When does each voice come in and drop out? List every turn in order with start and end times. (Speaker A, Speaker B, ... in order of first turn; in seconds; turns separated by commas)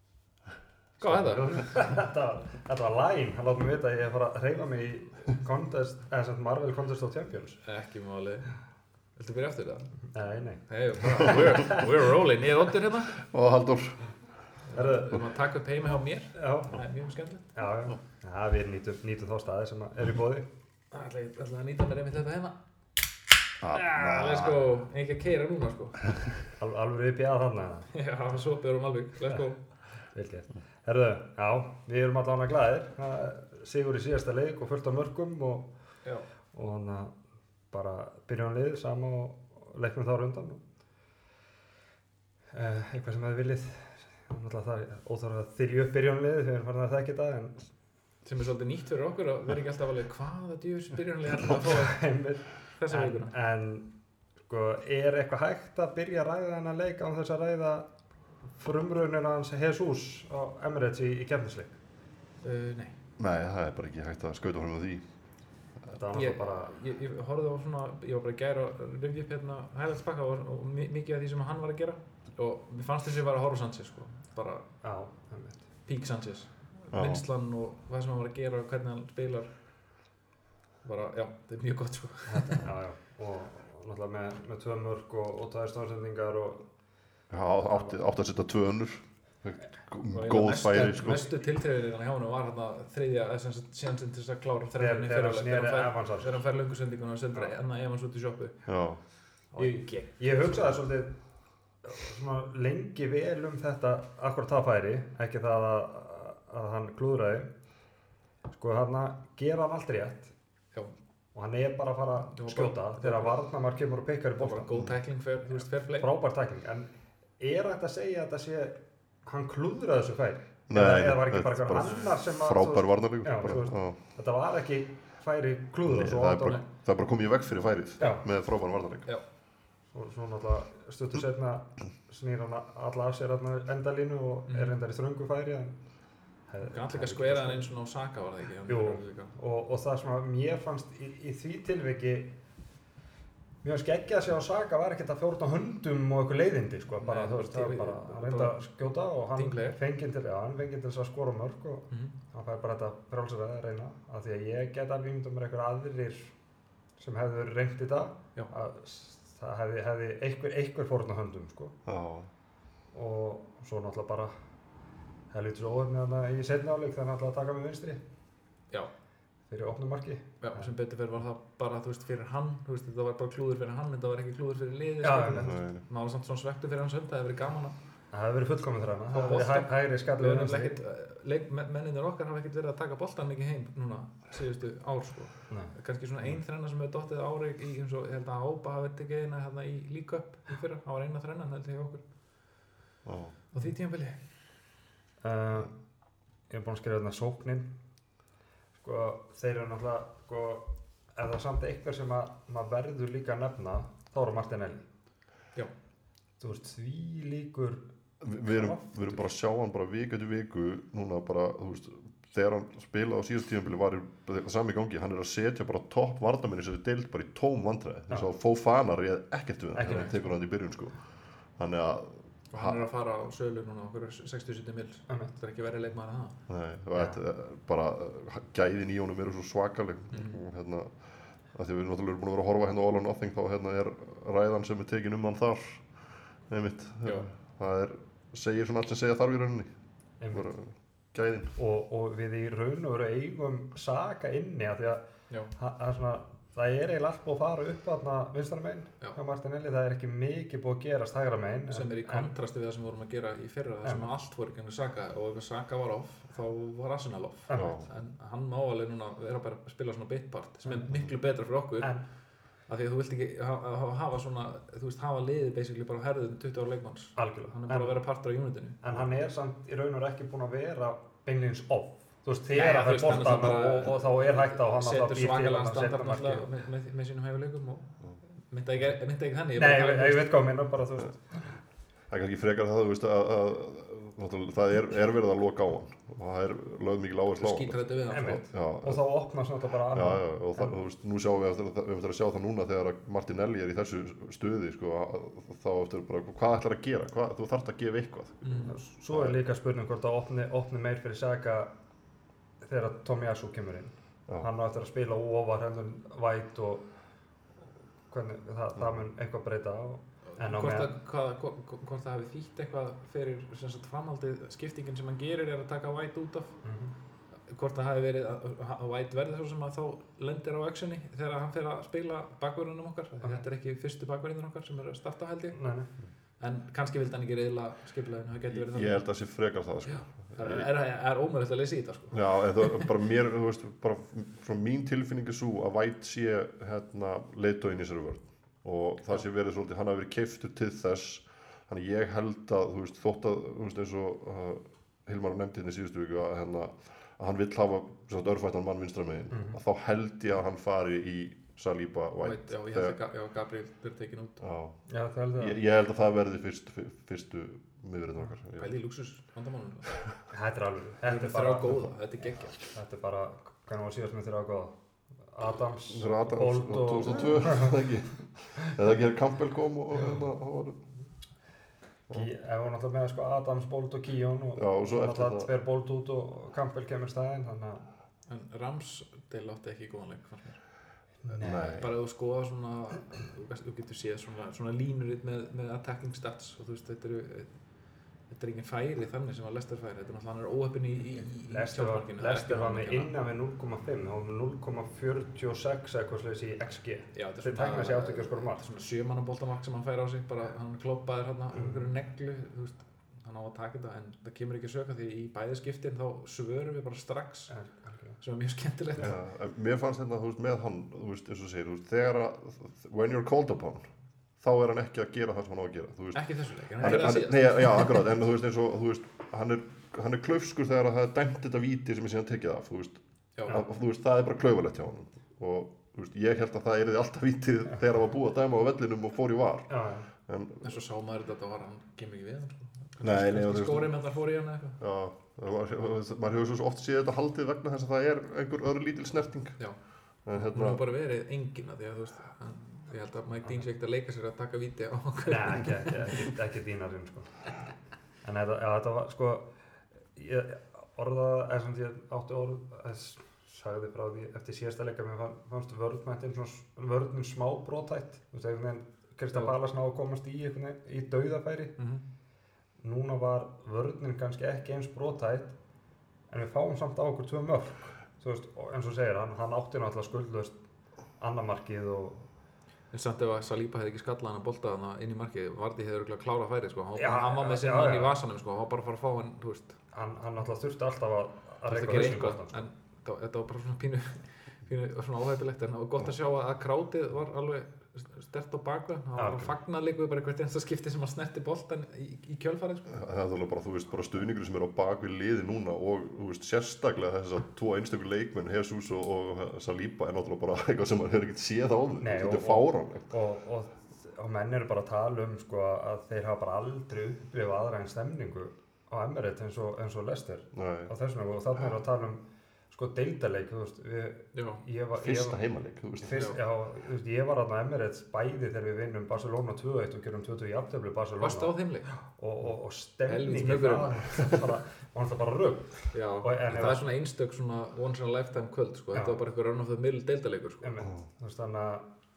Speaker A: 1.0-1.9, Speaker B: 1.0-7.6, Speaker A: 7.6-8.5, Speaker A: 9.2-9.9, Speaker B: 10.1-10.6, Speaker A: 10.7-13.2, Speaker C: 11.2-11.5, Speaker C: 13.1-14.1, Speaker A: 14.7-17.5, Speaker B: 14.7-15.2, Speaker B: 16.3-16.7, Speaker B: 17.6-20.5, Speaker A: 20.9-22.6, Speaker C: 23.6-24.6, Speaker A: 23.7-26.2, Speaker B: 26.6-27.9, Speaker A: 27.9-29.6, Speaker B: 30.1-35.7, Speaker B: 36.5-37.1, Speaker B: 37.7-40.6, Speaker B: 42.5-47.6, Speaker A: 48.2-52.0, Speaker B: 51.4-53.9, Speaker A: 52.8-53.3, Speaker B: 54.5-57.9, Speaker B: 58.6-61.8, Speaker A: 62.4-62.9, Speaker C: 63.2-65.0, Speaker B: 65.9-66.7, Speaker A: 66.1-74.7, Speaker B: 74.8-75.6, Speaker A: 75.8-79.5, Speaker C: 76.9-77.2, Speaker A: 80.8-82.7, Speaker B: 82.3-86.7, Speaker C: 87.3-91.2, Speaker B: 87.7-88.0, Speaker A: 90.1-98.6, Speaker B: 94.8-96.4, Speaker C: 98.7-99.0, Speaker B: 99.5-101.1, Speaker A: 99.6-100.2, Speaker B: 101.8-107.5, Speaker B: 108.5-110.3, Speaker B: 111.3-114.9, Speaker A: 112.3-113.3, Speaker A: 114.4-116.1, Speaker B: 115.6-126.6, Speaker C: 120.7-124.0, Speaker A: 121.8-122.1, Speaker C: 125.8-129.1, Speaker B: 128.0-128.2, Speaker B: 129.9-135.7, Speaker A: 134.5-134.7, Speaker B: 136.5-137.7, Speaker A: 136.6-139.3, Speaker B: 138.7-142.3, Speaker B: 143.6-156.3, Speaker A: 147.0-148.6, Speaker A: 149.3-149.8, Speaker B: 157.0-161.8, Speaker C: 161.8-162.3, Speaker B: 162.9-164.3, Speaker B: 165.3-168.0, Speaker B: 169.5-170.7, Speaker A: 170.4-177.8, Speaker B: 175.0-175.5, Speaker C: 175.4-175.8, Speaker B: 178.1-180.8, Speaker A: 179.1-192.0, Speaker C: 193.0-193.3, Speaker A: 193.5-194.2, Speaker B: 195.2-195.7, Speaker B: 196.5-197.7, Speaker B: 198.8-204.8, Speaker B: 206.4-207.8, Speaker C: 208.2-221.0, Speaker B: 208.4-209.2, Speaker B: 219.7-220.3, Speaker A: 219.9-220.1, Speaker C: 221.6-222.8, Speaker A: 222.5-226.3, Speaker C: 226.5-230.9, Speaker B: 226.9-227.2, Speaker A: 230.1-230.4, Speaker C: 231.5-235.8, Speaker C: 236.5-239.7, Speaker B: 240.2-240.5, Speaker C: 240.3-241.5, Speaker B: 241.6-245.0, Speaker B: 245.6-252.3, Speaker A: 251.7-261.9, Speaker B: 257.5-257.8, Speaker C: 257.5-257.9, Speaker A: 262.7-268.8, Speaker B: 267.1-268.0, Speaker B: 268.8-276.5, Speaker A: 272.5-280.4, Speaker B: 279.6-281.4, Speaker C: 282.1-289.0, Speaker A: 287.4-288.4, Speaker B: 288.1-290.7, Speaker C: 289.9-299.4, Speaker A: 298.4-298.8, Speaker B: 298.7-301.7, Speaker B: 302.6-306.9, Speaker B: 308.1-310.9, Speaker A: 310.4-316.5, Speaker B: 316.6-316.9, Speaker A: 317.5-325.6, Speaker B: 325.5-325.9, Speaker A: 326.4-329.0, Speaker C: 328.5-330.7, Speaker A: 330.3-332.8, Speaker C: 332.1-353.0, Speaker B: 349.3-349.6, Speaker A: 352.2-354.4, Speaker C: 354.4-354.8, Speaker B: 354.9-355.6, Speaker C: 355.4-358.7, Speaker A: 358.6-359.9, Speaker B: 360.3-361.9, Speaker A: 361.0-362.6, Speaker B: 362.5-364.7, Speaker B: 365.3-367.8, Speaker C: 365.9-370.8, Speaker B: 372.1-377.8, Speaker C: 374.6-375.5, Speaker A: 378.3-380.6, Speaker B: 381.2-381.7, Speaker C: 381.4-381.9, Speaker A: 381.6-387.5, Speaker A: 388.3-393.1, Speaker B: 391.2-398.6, Speaker A: 397.1-407.5, Speaker B: 401.5-401.9, Speaker B: 407.5-408.2, Speaker A: 408.2-409.1, Speaker C: 409.0-413.9, Speaker C: 414.4-416.2, Speaker A: 416.1-418.1, Speaker C: 416.8-429.7, Speaker A: 423.4-423.6, Speaker B: 429.7-430.1, Speaker C: 430.2-430.7, Speaker A: 430.6-434.8, Speaker C: 433.0-433.9, Speaker C: 434.8-439.6, Speaker C: 440.2-440.8, Speaker A: 440.4-446.3, Speaker B: 445.2-447.5, Speaker B: 448.2-449.5, Speaker B: 450.1-461.8, Speaker A: 461.8-462.0, Speaker B: 462.8-465.5, Speaker B: 466.3-470.5, Speaker B: 471.2-472.3, Speaker A: 472.9-479.8, Speaker B: 477.0-478.1, Speaker B: 479.9-482.6, Speaker A: 481.7-493.0, Speaker B: 489.2-489.5, Speaker C: 492.9-503.1, Speaker B: 502.0-515.4, Speaker C: 510.5-510.9, Speaker A: 514.3-514.6, Speaker C: 515.0-516.3, Speaker B: 516.0-526.8, Speaker A: 516.1-516.4, Speaker A: 521.2-521.9, Speaker A: 523.1-524.5, Speaker A: 525.9-530.8, Speaker B: 528.9-529.2, Speaker B: 530.6-531.9